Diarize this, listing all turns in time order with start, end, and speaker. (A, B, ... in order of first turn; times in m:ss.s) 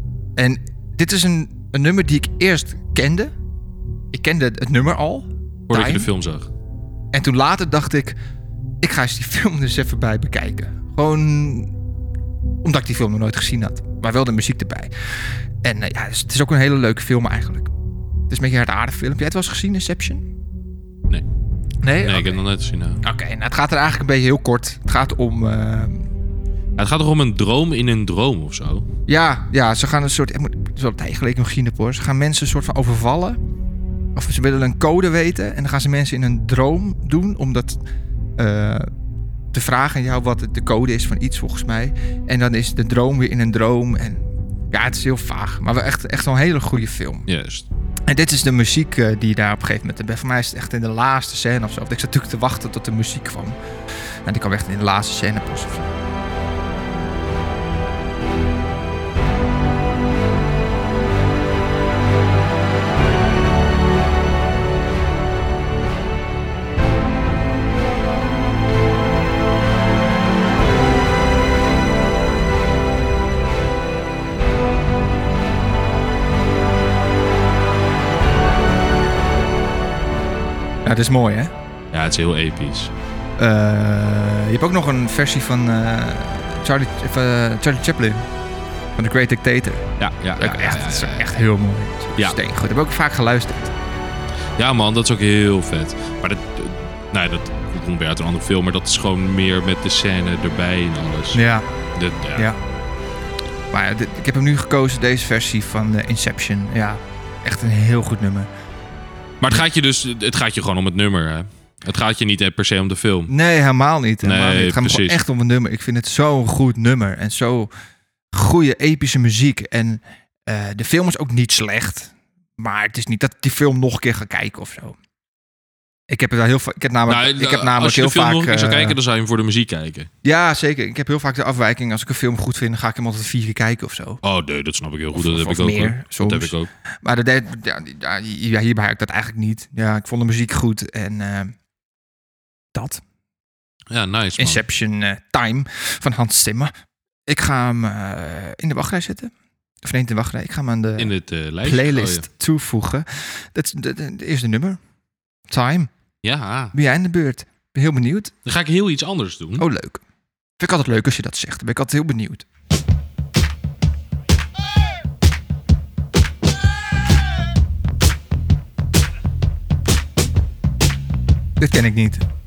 0:00.4-0:03.4 A
0:04.1-0:06.1 A
0:05.7-0:06.5 B
0:07.1-0:08.2 A
0:08.8-0:11.7 A
0:12.6-0:14.9 A
0:15.6-0:17.7 A
0:18.3-0:20.2 A
0:21.8-0:22.4 A
0:22.0-0:23.0 B
0:23.0-0:26.1 A
0:26.8-0:28.9 B
0:29.1-0:33.4 A
0:34.2-0:37.8 A
0:38.4-0:38.9 A
0:39.5-0:47.3 A
0:47.3-0:47.7 B
0:48.1-0:53.6 A
0:54.2-0:55.9 A
1:20.8-1:21.5 A
1:21.9-1:22.9 B
1:23.4-1:28.3 A
1:29.0-1:33.7 A
1:30.0-1:31.4 B
1:34.6-1:41.4 B
1:41.3-1:41.7 A
1:41.9-1:42.5 B
1:43.7-1:48.5 A
1:49.4-1:53.3 B
1:53.3-1:57.7 A
1:54.2-1:55.2 B
1:58.3-2:05.0 A
2:06.1-2:09.0 A
2:07.1-2:10.1 B
2:10.2-2:14.2 A
2:14.2-2:16.7 B
2:15.1-2:21.6 A
2:22.8-2:23.0 A
2:23.9-2:24.6 B
2:24.4-2:26.7 A
2:27.3-2:29.3 A
2:29.8-2:34.8 A
2:31.0-2:32.3 B
2:35.5-2:35.9 A
2:36.2-2:36.7 B
2:36.7-2:38.3 A
2:38.4-2:39.7 B
2:39.6-2:40.0 A
2:40.6-2:42.5 A
2:51.6-2:52.2 A